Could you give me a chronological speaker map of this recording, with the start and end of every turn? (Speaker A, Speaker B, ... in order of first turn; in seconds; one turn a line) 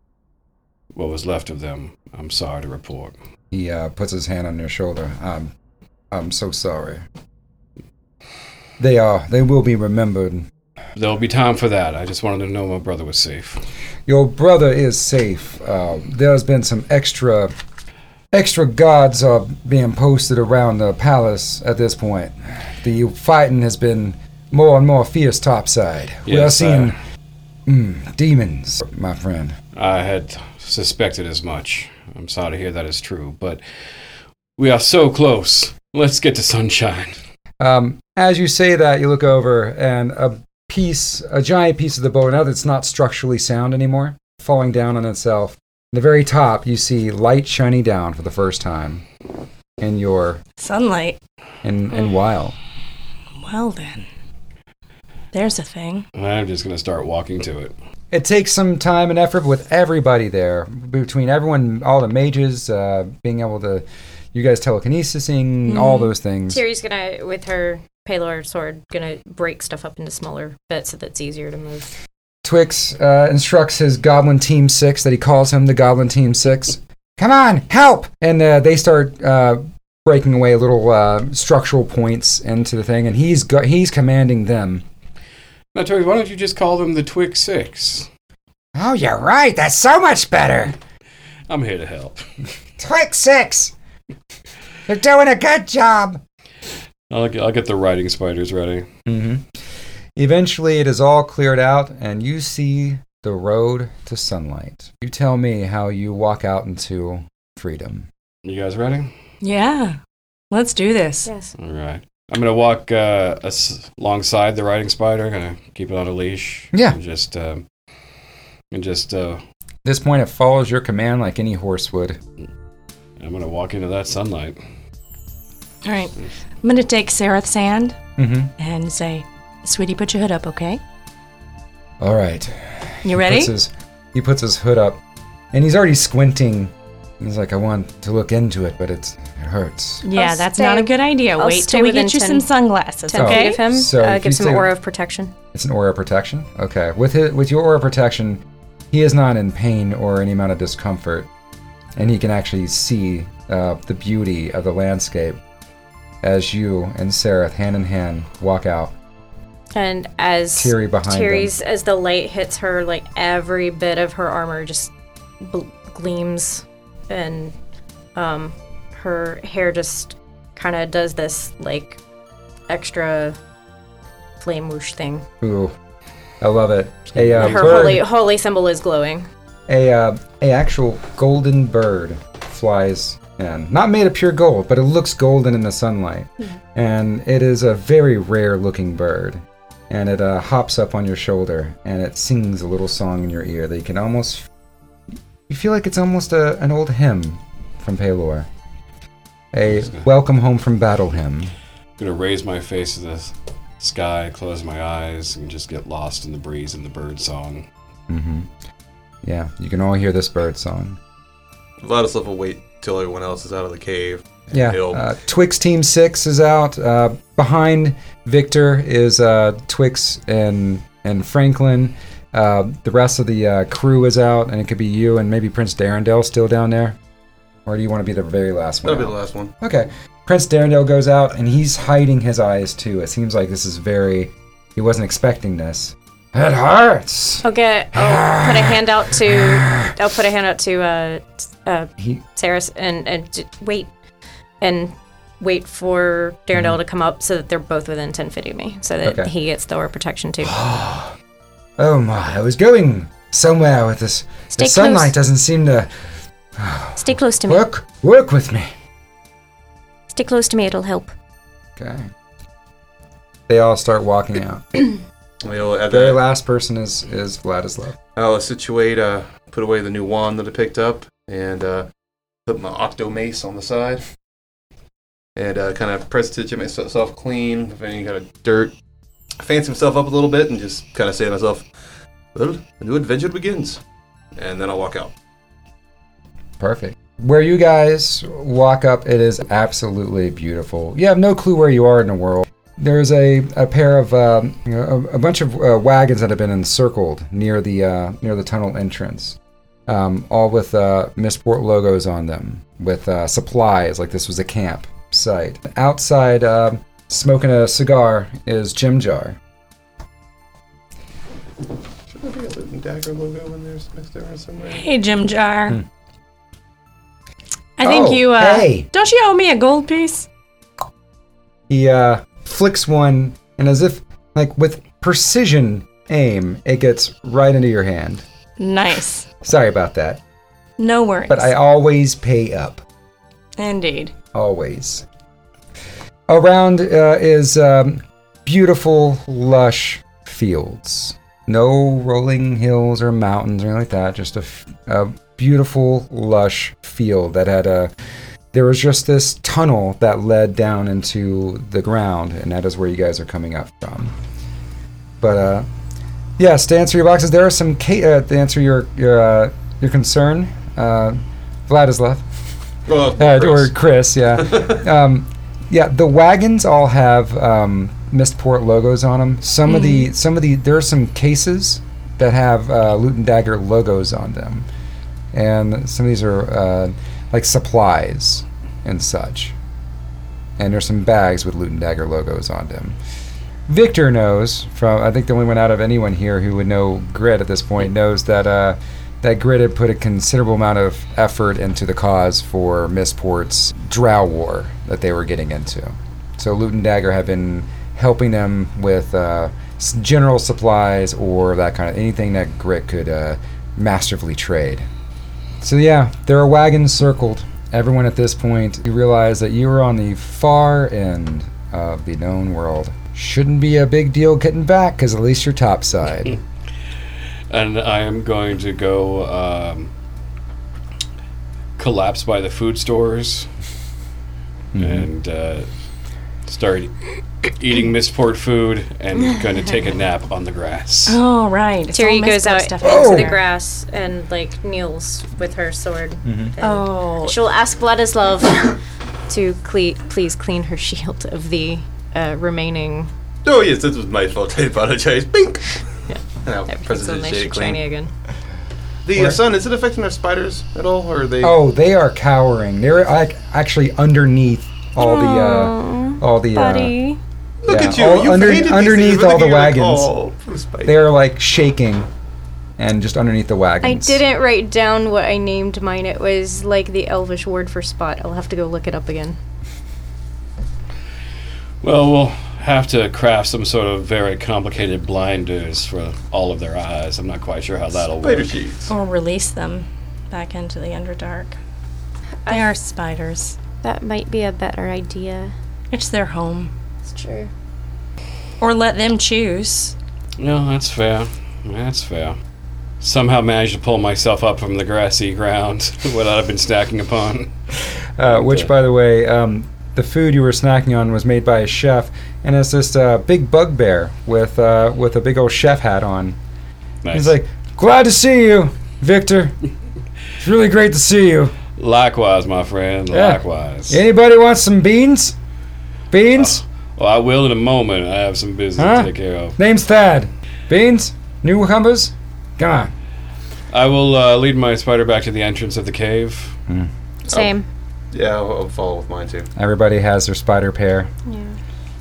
Speaker A: 0.9-3.1
Speaker B: 3.5-5.5
Speaker B: 6.1-7.0
Speaker B: 8.8-10.5
Speaker A: 11.0-13.6
Speaker B: 14.1-17.5
Speaker B: 18.3-27.0
Speaker A: 26.3-26.9
Speaker B: 27.7-29.6
Speaker A: 29.7-33.6
Speaker A: 34.6-37.2
Speaker B: 37.6-49.0
Speaker B: 49.8-50.4
Speaker C: 50.6-51.2
Speaker B: 51.6-52.6
Speaker C: 53.4-54.1
Speaker C: 55.3-56.1
Speaker A: 56.1-57.7
Speaker B: 58.1-66.6
Speaker C: 65.7-66.1
Speaker D: 66.5-72.0
Speaker B: 72.4-84.8
Speaker A: 85.7-88.1
Speaker B: 88.8-90.8
Speaker A: 91.5-92.3
Speaker B: 92.8-93.7
Speaker B: 94.9-96.2
Speaker A: 97.1-98.9
Speaker B: 99.1-99.5
Speaker B: 100.2-108.1
Speaker A: 108.4-109.1
Speaker C: 109.4-110.0
Speaker C: 110.5-111.3
Speaker D: 111.3-111.5
Speaker A: 111.6-117.7
Speaker B: 116.7-117.0
Speaker A: 118.7-119.4
Speaker B: 119.8-122.2
Speaker A: 123.2-124.6
Speaker C: 125.8-128.0
Speaker B: 128.2-128.5
Speaker C: 128.6-130.8
Speaker B: 132.0-135.0
Speaker C: 133.0-133.5
Speaker B: 135.5-140.1
Speaker C: 140.0-143.6
Speaker D: 140.2-142.5
Speaker D: 143.1-145.3
Speaker B: 143.2-144.7
Speaker B: 145.5-151.3
Speaker B: 152.0-155.4
Speaker B: 156.2-158.9
Speaker D: 159.8-167.6
Speaker B: 160.6-161.5
Speaker D: 168.2-172.0
Speaker D: 172.7-173.4
Speaker D: 174.4-175.3
Speaker B: 175.4-175.7
Speaker B: 176.4-178.1
Speaker D: 177.4-179.3
Speaker B: 179.7-194.5
Speaker B: 195.5-198.5
Speaker B: 199.5-201.5
Speaker A: 202.0-207.7
Speaker B: 208.1-208.5
Speaker B: 209.2-211.0
Speaker E: 211.8-215.1
Speaker B: 214.5-227.0
Speaker B: 227.7-239.9
Speaker E: 228.8-229.5
Speaker D: 237.4-243.9
Speaker D: 244.6-250.6
Speaker B: 249.0-249.3
Speaker B: 250.4-251.2
Speaker B: 251.8-255.9
Speaker D: 254.6-255.1
Speaker B: 256.6-258.7
Speaker D: 257.0-257.6
Speaker D: 260.1-261.1
Speaker B: 261.8-262.1
Speaker B: 263.5-264.9
Speaker E: 265.4-266.2
Speaker B: 265.9-268.0
Speaker E: 268.2-271.9
Speaker E: 272.5-274.0
Speaker E: 275.4-278.7
Speaker E: 279.4-281.7
Speaker E: 282.3-283.8
Speaker E: 284.4-285.1
Speaker B: 286.6-309.4
Speaker E: 312.1-314.9
Speaker C: 314.7-315.8
Speaker C: 317.8-320.3
Speaker B: 317.8-318.9
Speaker B: 321.7-328.2
Speaker C: 328.6-329.3
Speaker B: 329.4-330.2
Speaker C: 330.8-331.5
Speaker B: 331.3-332.8
Speaker C: 333.6-334.1
Speaker B: 334.3-335.1
Speaker B: 336.3-347.9
Speaker B: 348.5-354.1
Speaker B: 355.2-355.7
Speaker B: 356.4-362.2
Speaker E: 362.9-363.7
Speaker B: 363.1-374.7
Speaker E: 364.4-364.8
Speaker B: 375.3-379.6
Speaker B: 380.6-383.0
Speaker B: 383.7-404.9
Speaker B: 405.6-416.4
Speaker A: 417.5-419.9
Speaker A: 421.8-423.5
Speaker B: 424.7-425.1
Speaker A: 424.8-425.7
Speaker A: 426.5-427.0
Speaker A: 427.5-431.2
Speaker C: 431.1-433.4
Speaker D: 431.9-443.1
Speaker B: 432.8-433.3
Speaker B: 436.2-436.5
Speaker C: 436.6-437.4
Speaker E: 443.4-445.8
Speaker D: 446.1-448.1
Speaker E: 446.4-447.8
Speaker E: 449.1-451.6
Speaker B: 449.1-449.4
Speaker B: 451.4-456.9
Speaker D: 455.0-457.2
Speaker E: 457.6-461.0
Speaker B: 457.7-460.1
Speaker B: 460.9-462.1
Speaker B: 462.8-464.2
Speaker D: 463.8-469.4
Speaker A: 471.8-478.6
Speaker E: 478.2-478.9
Speaker C: 478.9-481.6
Speaker D: 482.4-482.7
Speaker C: 482.5-483.6
Speaker D: 483.8-485.5
Speaker C: 485.9-486.7
Speaker D: 487.0-487.5
Speaker C: 488.6-489.9
Speaker A: 490.4-492.4
Speaker A: 493.0-497.5
Speaker B: 498.2-506.4
Speaker A: 498.3-498.7
Speaker A: 507.0-507.4
Speaker B: 507.1-509.6
Speaker B: 510.4-511.6
Speaker A: 511.8-514.0
Speaker B: 513.1-515.4
Speaker B: 516.1-516.6
Speaker A: 516.4-519.5
Speaker B: 518.8-522.9
Speaker A: 523.7-526.6
Speaker D: 527.3-527.7
Speaker E: 527.3-527.5
Speaker E: 528.1-529.5
Speaker B: 529.6-531.1
Speaker D: 531.3-531.6